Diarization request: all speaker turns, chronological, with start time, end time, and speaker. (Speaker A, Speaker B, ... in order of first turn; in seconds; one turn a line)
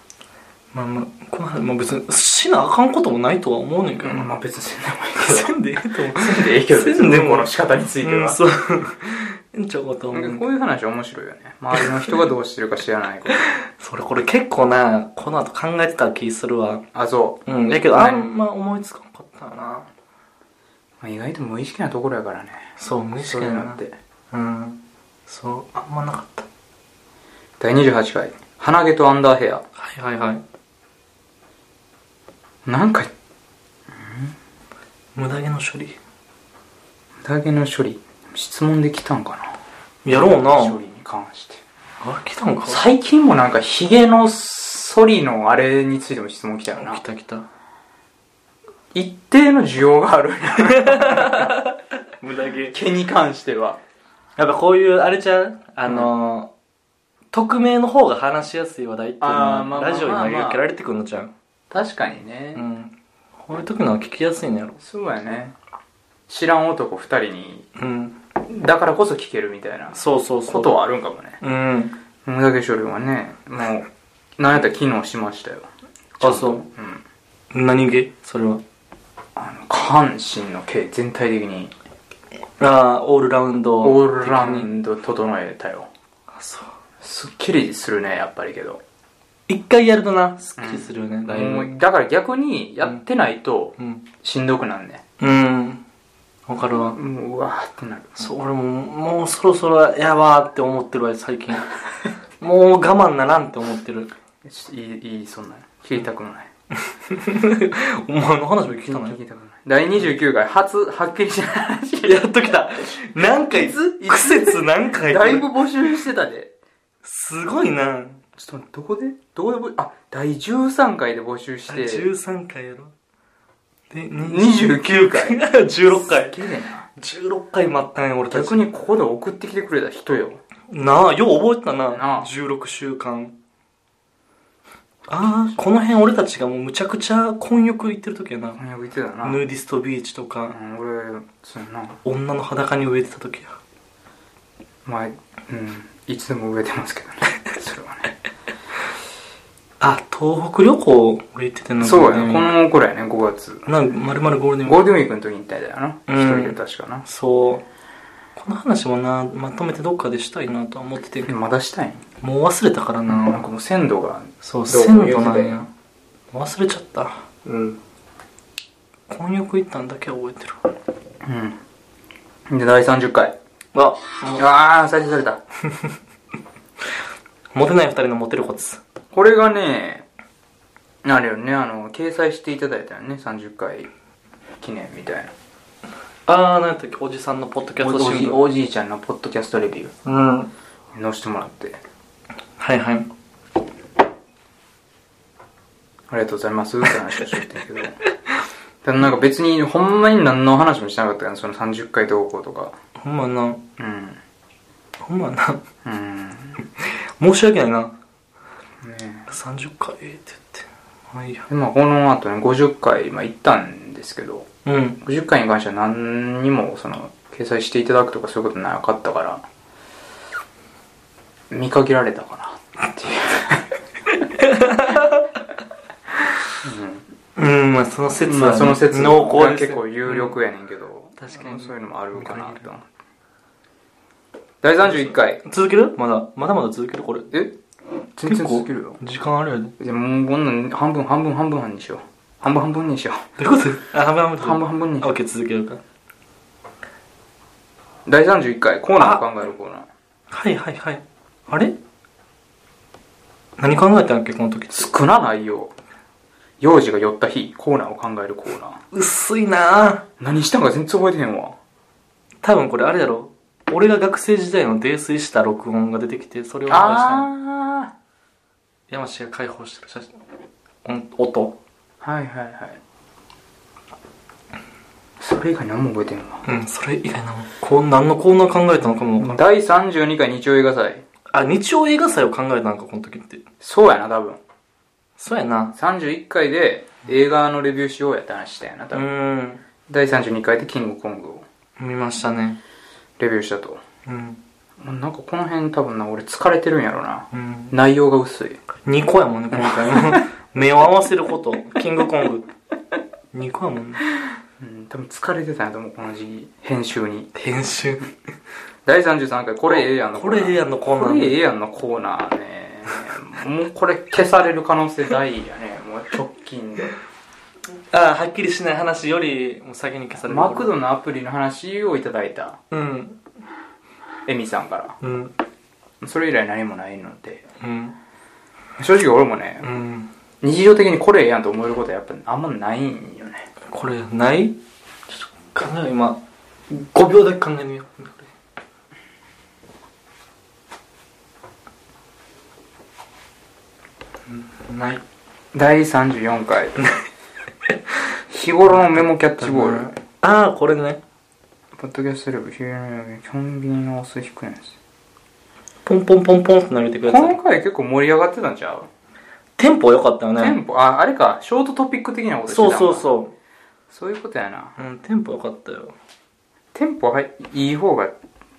Speaker A: 0.7-4.3
Speaker B: 4.0-5.6
Speaker A: 5.2-10.4
Speaker B: 6.1-8.4
Speaker B: 10.1-13.5
Speaker A: 13.3-16.9
Speaker B: 16.9-18.3
Speaker A: 17.5-19.9
Speaker B: 21.0-23.9
Speaker A: 22.8-23.8
Speaker A: 24.3-26.5
Speaker B: 27.6-29.6
Speaker A: 29.8-30.4
Speaker B: 32.7-33.1
Speaker B: 33.9-34.3
Speaker A: 35.2-36.0
Speaker B: 37.2-39.6
Speaker A: 40.0-40.8
Speaker B: 40.1-41.6
Speaker A: 42.0-42.8
Speaker B: 42.7-47.0
Speaker A: 46.7-47.5
Speaker B: 48.9-51.5
Speaker A: 50.6-52.8
Speaker B: 52.7-53.8
Speaker A: 54.4-56.5
Speaker B: 55.9-56.1
Speaker A: 57.3-61.3
Speaker B: 59.2-60.6
Speaker B: 61.7-62.6
Speaker A: 62.5-64.8
Speaker B: 64.8-65.6
Speaker B: 66.3-67.7
Speaker A: 67.8-68.2
Speaker B: 68.4-70.0
Speaker A: 69.9-70.7
Speaker B: 70.5-71.4
Speaker A: 71.4-71.9
Speaker B: 72.2-75.7
Speaker B: 76.2-77.0
Speaker A: 76.2-76.6
Speaker A: 77.5-78.6
Speaker B: 79.4-81.7
Speaker A: 82.6-84.7
Speaker B: 83.8-85.9
Speaker A: 86.3-86.7
Speaker B: 87.0-88.8
Speaker A: 89.5-91.7
Speaker B: 90.6-95.0
Speaker A: 93.8-94.0
Speaker A: 95.2-95.8
Speaker A: 96.5-97.0
Speaker B: 96.8-98.2
Speaker A: 98.2-101.7
Speaker A: 102.4-104.1
Speaker B: 104.4-106.5
Speaker A: 106.8-109.2
Speaker B: 108.7-112.2
Speaker A: 112.0-115.5
Speaker B: 113.5-116.5
Speaker A: 117.0-118.2
Speaker B: 118.4-122.1
Speaker A: 121.7-122.9
Speaker A: 123.9-126.4
Speaker B: 124.2-126.9
Speaker A: 126.9-128.7
Speaker B: 128.3-130.4
Speaker A: 130.7-133.3
Speaker B: 131.9-132.3
Speaker A: 135.1-138.6
Speaker B: 135.2-135.5
Speaker B: 138.6-139.4
Speaker A: 139.2-140.6
Speaker B: 140.5-142.0
Speaker A: 142.0-143.6
Speaker B: 144.8-148.2
Speaker A: 149.8-152.6
Speaker B: 151.8-153.7
Speaker A: 153.7-154.9
Speaker B: 154.6-157.0
Speaker A: 156.1-157.7
Speaker A: 158.4-161.3
Speaker B: 161.2-162.0
Speaker A: 162.2-163.4
Speaker B: 163.1-165.6
Speaker A: 164.4-165.7
Speaker A: 166.3-167.8
Speaker A: 169.1-170.6
Speaker B: 171.2-171.6
Speaker B: 172.5-173.4
Speaker A: 173.7-174.4
Speaker B: 174.3-175.4
Speaker A: 177.5-178.8
Speaker B: 179.1-180.1
Speaker B: 181.0-183.9
Speaker B: 184.6-185.3
Speaker A: 186.3-188.4
Speaker B: 187.8-189.9
Speaker A: 190.1-190.5
Speaker B: 190.9-191.8
Speaker A: 192.6-193.1
Speaker B: 196.1-198.0
Speaker B: 198.8-202.8
Speaker A: 203.0-203.6
Speaker B: 203.8-204.2
Speaker A: 205.0-205.6
Speaker B: 205.8-206.6
Speaker A: 206.8-207.9
Speaker B: 208.8-209.3
Speaker A: 209.3-211.5
Speaker B: 211.5-214.5
Speaker A: 214.7-215.0
Speaker B: 215.0-219.4
Speaker B: 221.5-223.7
Speaker A: 224.3-225.3
Speaker A: 226.3-226.6
Speaker B: 226.6-227.1
Speaker A: 227.4-230.4
Speaker B: 228.2-232.9
Speaker A: 231.2-232.7
Speaker B: 234.6-235.4
Speaker A: 234.8-237.3
Speaker B: 238.2-239.0
Speaker A: 238.2-239.8
Speaker B: 239.8-243.3
Speaker A: 243.4-245.8
Speaker B: 244.4-245.2
Speaker B: 248.1-249.9
Speaker A: 249.0-249.2
Speaker A: 250.3-251.8
Speaker A: 253.6-254.9
Speaker B: 254.7-255.7
Speaker B: 256.6-258.8
Speaker A: 258.9-260.1
Speaker B: 260.2-261.6
Speaker A: 262.4-267.3
Speaker B: 266.7-267.9
Speaker A: 268.9-270.2
Speaker A: 270.9-271.6
Speaker B: 272.0-272.8
Speaker B: 275.2-276.4
Speaker A: 276.4-279.4
Speaker B: 279.2-281.0
Speaker A: 281.3-283.4
Speaker B: 283.6-284.4
Speaker A: 285.2-285.8
Speaker B: 285.8-289.1
Speaker A: 288.9-289.6
Speaker B: 289.9-291.5
Speaker A: 291.8-292.6
Speaker B: 293.2-293.8
Speaker A: 294.1-294.4
Speaker B: 294.8-298.6
Speaker A: 297.3-297.7
Speaker A: 298.9-302.5
Speaker B: 299.5-300.2
Speaker A: 303.3-304.1
Speaker B: 304.6-307.3
Speaker A: 307.4-308.1
Speaker B: 308.9-316.9
Speaker A: 309.7-311.4
Speaker A: 317.9-320.7
Speaker B: 320.2-322.6
Speaker A: 322.7-323.2
Speaker B: 324.2-325.0
Speaker A: 325.0-325.3
Speaker B: 326.0-327.4
Speaker A: 327.6-327.9
Speaker B: 328.8-329.7
Speaker A: 329.6-330.1
Speaker B: 330.4-333.5
Speaker A: 333.7-334.6
Speaker A: 335.1-338.3
Speaker A: 344.3-345.0
Speaker B: 345.5-346.8
Speaker B: 348.3-349.9
Speaker A: 348.7-351.0
Speaker B: 351.8-354.8
Speaker A: 355.9-357.4
Speaker B: 357.1-358.9
Speaker A: 359.6-360.6
Speaker B: 360.4-363.1
Speaker A: 362.5-363.3
Speaker B: 363.9-364.8
Speaker A: 364.8-365.9
Speaker B: 366.7-368.1